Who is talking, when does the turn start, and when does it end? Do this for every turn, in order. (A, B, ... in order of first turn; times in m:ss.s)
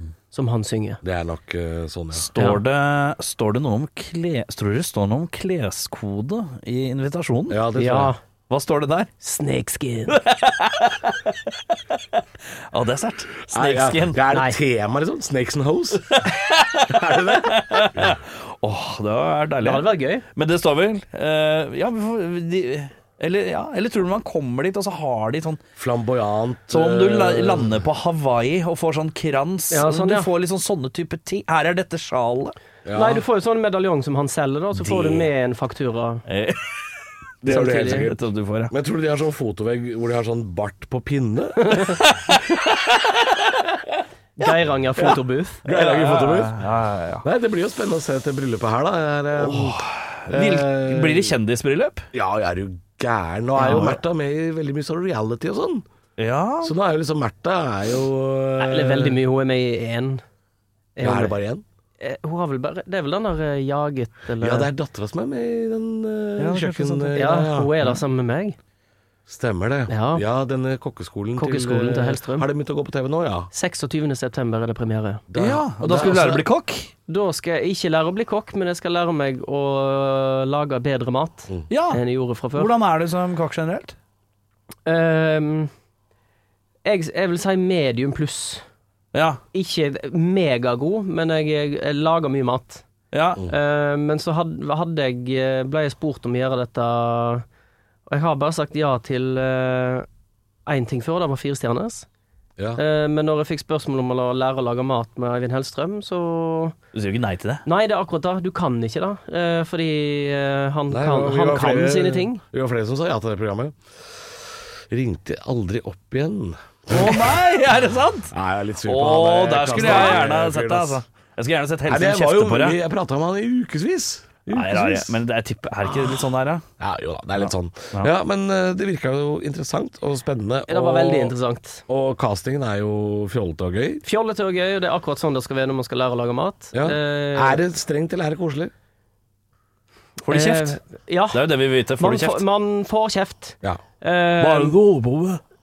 0:00.3-0:01.0 A
0:01.0-0:02.3 B
0:02.1-0:07.6 C
0:07.5-0:08.1 B
0:07.8-0:08.2 A
0:08.5-0:09.1 C
0:09.2-0:10.2 A
0:10.1-0:11.2 C
0:12.7-0:14.2 C
0:13.5-0:16.2 B
0:14.3-0:14.6 A
0:16.1-0:25.6 C
0:16.8-0:18.1 B
0:19.6-0:20.2 A
0:25.8-0:27.7 B
0:26.7-0:32.6 C
0:29.7-0:30.3 A
0:32.8-0:33.2 B
0:32.9-0:36.2 A
0:36.3-0:36.9 C
0:37.4-0:38.2 B
0:37.5-0:38.1 A
0:37.5-0:38.7 C
0:38.7-0:41.9 B
0:41.6-0:41.9 A
0:42.0-0:43.3 C
0:44.4-0:45.6 A
0:45.6-0:46.6 B
0:45.7-0:47.2 C
0:47.2-0:51.3 B
0:49.4-0:52.0 C
0:52.1-0:55.8 B
0:53.6-0:54.0 A
0:53.6-0:53.9 C
0:56.2-0:56.7 C
0:56.6-0:59.2 B
0:58.6-1:00.2 A
1:01.0-1:01.3 A
1:01.0-1:01.6 B
1:02.0-1:04.7 A
1:04.4-1:07.7 B
1:06.4-1:07.2 C
1:07.1-1:08.6 A
1:09.3-1:13.5 B
1:09.9-1:10.2 A
1:11.4-1:12.5 A
1:13.5-1:15.2 A
1:15.3-1:16.4 B
1:15.4-1:16.9 C
1:17.1-1:22.7 A
1:21.7-1:24.0 C
1:24.8-1:25.7 A
1:26.8-1:28.6 A
1:29.1-1:29.4 C
1:29.5-1:32.8 A
1:33.1-1:33.4 C
1:33.5-1:37.4 A
1:38.1-1:40.1 A
1:40.6-1:42.0 A
1:42.8-1:46.7 A
1:46.9-1:47.6 C
1:47.6-1:52.4 A
1:50.9-1:54.2 B
1:54.9-1:57.4 B
1:56.9-1:58.3 C
1:58.3-2:01.0 B
1:58.8-2:02.8 C
2:01.9-2:05.2 B
2:04.5-2:06.6 C
2:06.8-2:11.3 B
2:10.7-2:11.8 A
2:11.9-2:14.0 B
2:14.0-2:17.6 A
2:16.7-2:18.7 B
2:20.3-2:20.8 C
2:20.3-2:21.4 A
2:21.3-2:22.4 C
2:22.0-2:24.8 A
2:24.4-2:25.4 C